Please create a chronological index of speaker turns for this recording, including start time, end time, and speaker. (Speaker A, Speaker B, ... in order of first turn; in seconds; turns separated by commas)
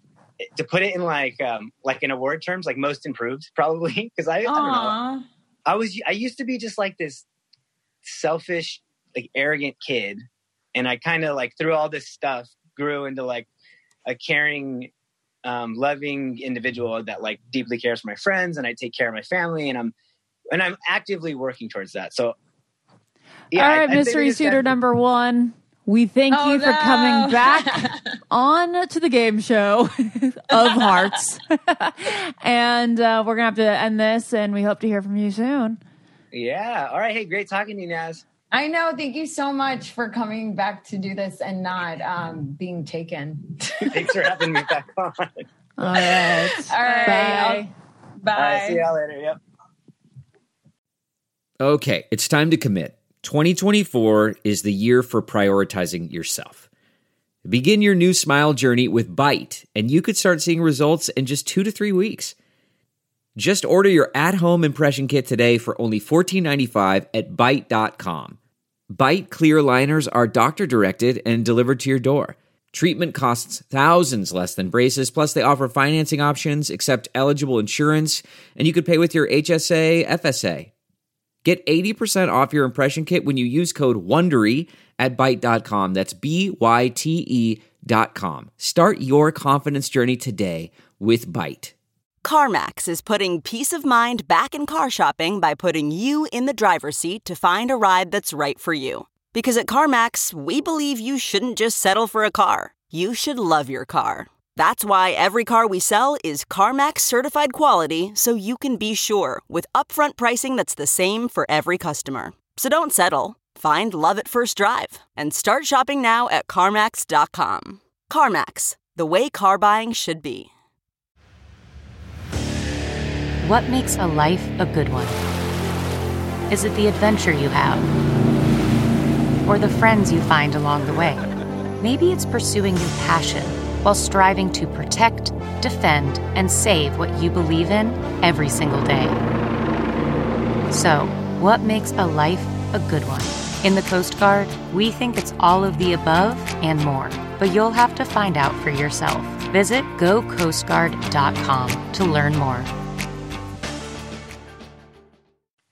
Speaker A: 0.4-5.0, Speaker B: 4.5-5.2, Speaker A: 5.7-7.2, Speaker A: 8.0-13.5, Speaker A: 14.1-14.9, Speaker A: 15.4-19.9, Speaker A: 20.5-22.4, Speaker A: 23.5-24.8, Speaker C: 23.5-35.8, Speaker B: 26.3-28.1, Speaker B: 30.5-30.9, Speaker A: 36.3-38.2, Speaker B: 38.5-44.5, Speaker A: 43.9-45.5, Speaker C: 45.8-47.7, Speaker B: 45.8-47.7, Speaker B: 48.2-48.8, Speaker A: 48.4-49.4, Speaker D: 51.6-56.6, Speaker D: 57.4-62.3, Speaker D: 63.4-68.4, Speaker D: 68.9-80.7, Speaker D: 81.4-91.7, Speaker E: 92.2-120.5, Speaker F: 123.4-125.2, Speaker F: 126.5-127.9, Speaker F: 129.4-131.2, Speaker F: 131.8-139.2, Speaker F: 140.7-152.7